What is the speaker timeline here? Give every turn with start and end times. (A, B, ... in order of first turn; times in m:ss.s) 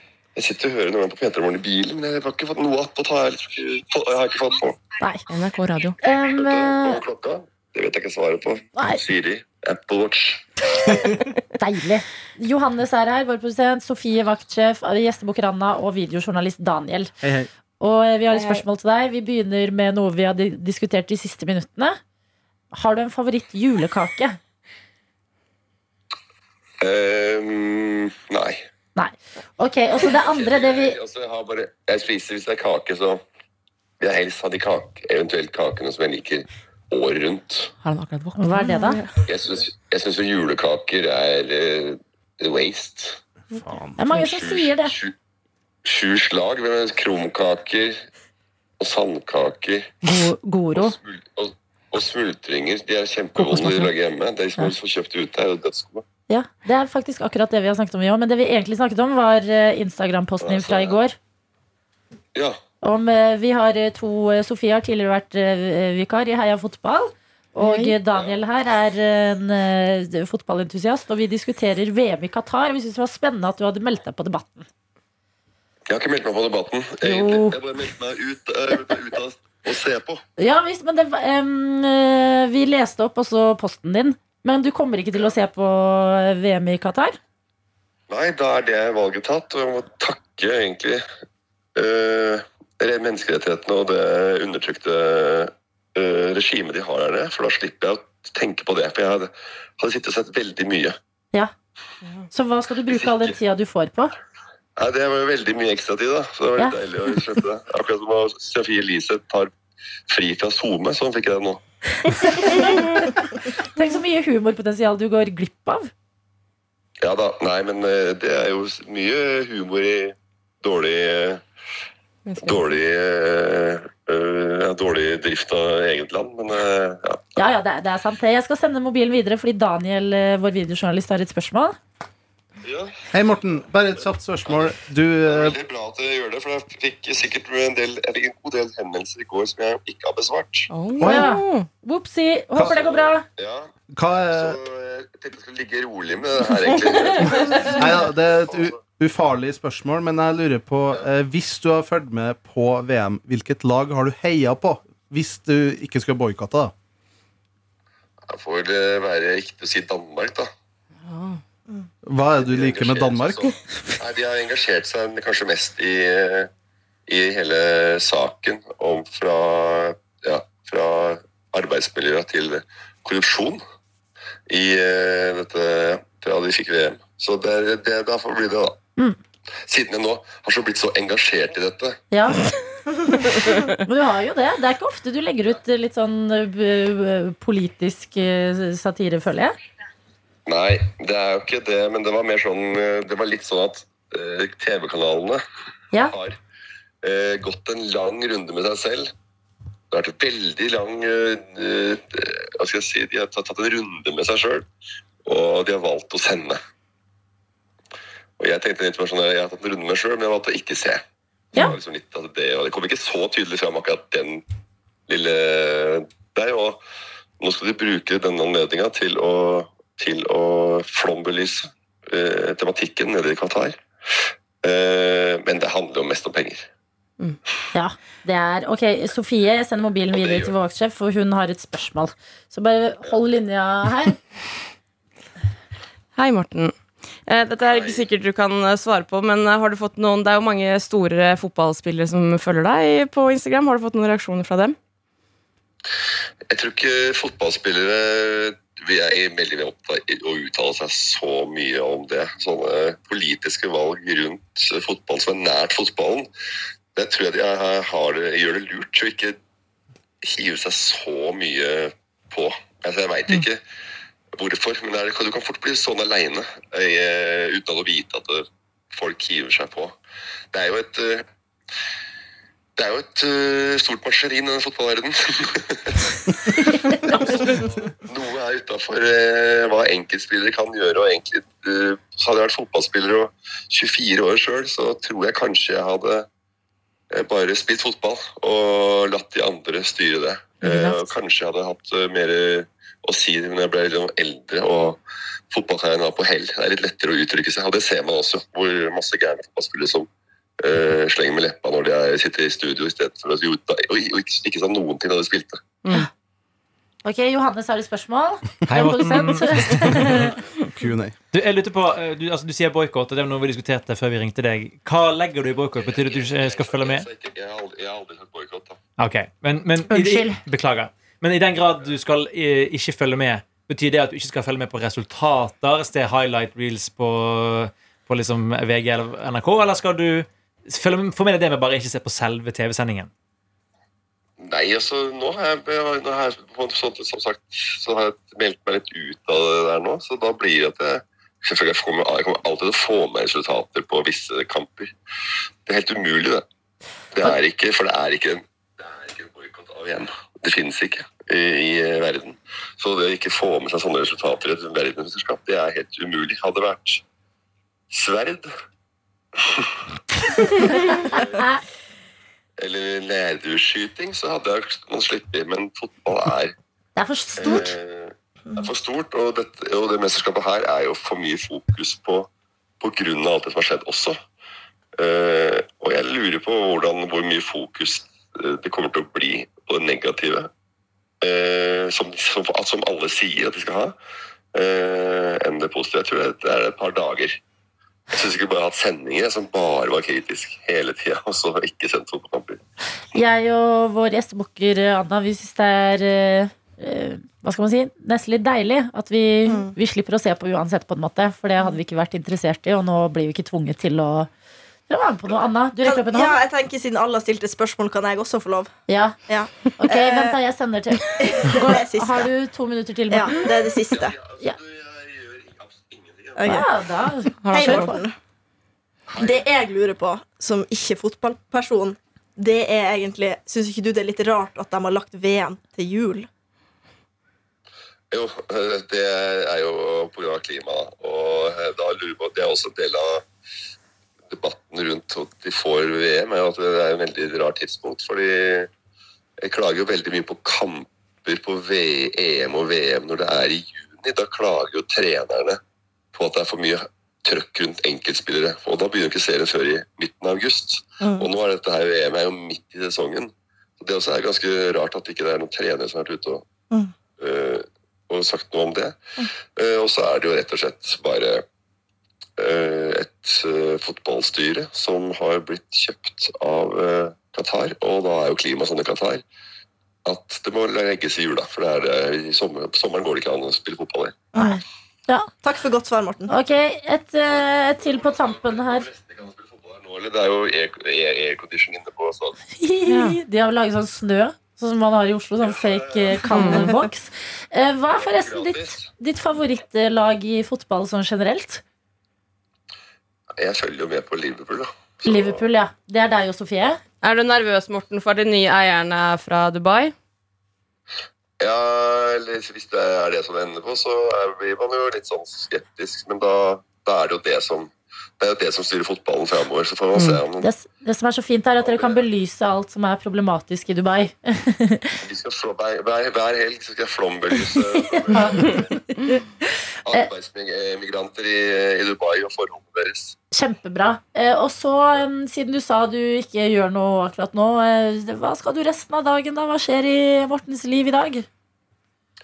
0:00.4-0:04.8 A
0:05.3-0:06.0 B
0:06.0-0:07.0 C
0:06.3-0:10.9 A
0:08.8-0:09.0 C
0:11.6-0:17.1 C
0:17.2-0:17.5 D
0:17.8-0:22.0 C
0:18.3-0:18.6 B
0:22.7-0:24.4 C
0:26.8-0:28.6 A
0:29.0-0:31.0 C
0:30.1-0:33.2 A
0:34.0-0:37.7 A
0:37.8-0:39.2 B
0:38.4-0:39.0 C
0:39.3-0:43.2 A
0:43.5-0:44.0 D
0:44.0-0:44.9 C
0:44.1-0:45.1 A
0:45.8-0:48.0 A
0:48.8-0:50.1 A
0:50.0-0:51.0 C
0:50.7-0:56.0 A
0:53.4-0:53.9 C
0:56.3-1:01.2 C
1:00.4-1:01.0 A
1:02.8-1:14.6 C
1:07.6-1:08.0 B
1:15.9-1:20.2 A
1:17.0-1:17.6 C
1:20.4-1:27.2 C
1:28.1-1:31.0 A
1:31.8-1:41.0 A
1:42.3-1:44.1 C
1:42.9-1:43.3 A
1:44.8-1:49.5 A
1:50.1-1:51.6 A
1:52.0-1:55.9 C
1:57.0-2:01.4 A
2:02.2-2:02.6 B
2:02.4-2:07.2 A
2:07.4-2:11.8 C
2:12.6-2:13.0 A
2:13.1-2:15.5 D
2:15.2-2:20.7 A
2:20.7-2:21.7 B
2:21.0-2:21.3 D
2:21.0-2:23.2 C
2:22.6-2:23.7 A
2:23.9-2:24.6 D
2:24.3-2:27.8 A
2:27.7-2:36.7 D
2:38.3-2:40.5 A
2:41.0-2:41.4 B
2:42.0-2:43.4 D
2:42.4-2:46.5 A
2:47.1-2:53.6 A
2:54.5-2:58.8 A
2:59.6-3:02.0 A
3:02.1-3:02.4 C
3:03.8-3:09.5 C
3:10.5-3:15.4 A
3:16.0-3:16.4 A
3:17.0-3:19.1 A
3:19.9-3:24.6 A
3:25.2-3:26.6 A
3:28.4-3:31.0 A
3:31.5-3:34.4 A
3:35.1-3:36.8 A
3:37.4-3:43.8 A
3:44.6-3:46.6 A
3:47.7-3:54.2 C
3:50.1-3:50.5 A
3:56.2-3:56.7 B
3:57.2-4:04.8 B
3:57.6-3:58.0 A
4:06.5-4:16.3 A
4:16.9-4:19.4 A
4:20.2-4:23.6 A
4:24.4-4:30.0 A
4:30.5-4:31.2 A
4:32.8-4:36.0 A
4:36.9-4:46.2 A
4:47.1-5:00.1 A
4:50.6-4:51.1 B
5:00.6-5:05.6 A
5:07.0-5:10.3 C
5:08.7-5:10.3 E
5:09.9-5:10.2 D
5:10.7-5:11.1 D
5:11.3-5:17.1 E
5:15.8-5:18.8 A
5:19.0-5:33.1 E
5:19.9-5:20.4 C
5:34.4-5:44.9 A
5:45.6-5:46.4 A
5:47.1-5:57.0 A
5:57.9-5:58.5 A
6:01.1-6:01.4 A
6:02.6-6:06.5 A
6:07.0-6:07.7 C
6:07.4-6:12.3 A
6:12.8-6:14.2 A
6:15.0-6:20.5 A
6:21.2-6:24.0 A
6:24.5-6:27.4 A
6:28.1-6:32.6 A
6:33.1-6:44.3 C
6:39.4-6:39.7 F
6:44.9-6:46.4 C
6:45.8-6:48.7 F
6:48.9-6:49.2 C
6:49.3-6:50.4 F
6:49.8-6:53.6 C
6:51.2-6:52.3 F
6:53.1-6:54.2 F
6:53.9-6:56.5 A
6:56.4-6:56.7 F
6:56.4-6:58.0 C
6:57.4-6:58.0 B
6:57.5-6:58.1 F
6:59.1-6:59.4 A
6:59.2-7:06.3 F
7:08.1-7:13.2 A
7:14.3-7:18.7 A
7:19.4-7:25.6 A
7:26.1-7:36.4 A
7:31.0-7:31.3 F
7:37.2-7:39.0 A
7:39.5-7:41.4 A
7:42.4-7:49.2 A
7:50.0-7:54.3 A
7:54.3-7:54.6 F
7:54.4-7:55.3 C
7:55.4-7:56.3 F
7:56.3-7:58.9 C
7:57.8-8:02.4 A
8:02.5-8:11.6 C
8:02.9-8:03.2 B
8:05.4-8:06.4 A
8:06.3-8:06.7 B
8:07.9-8:08.9 A
8:13.4-8:15.4 A
8:15.0-8:16.8 C
8:17.0-8:19.9 B
8:21.4-8:30.5 A
8:29.9-8:30.2 B
8:30.4-8:35.0 C
8:31.6-8:32.0 A
8:35.0-8:38.8 A
8:38.1-8:39.2 C
8:39.9-8:43.2 A
8:43.3-8:51.2 C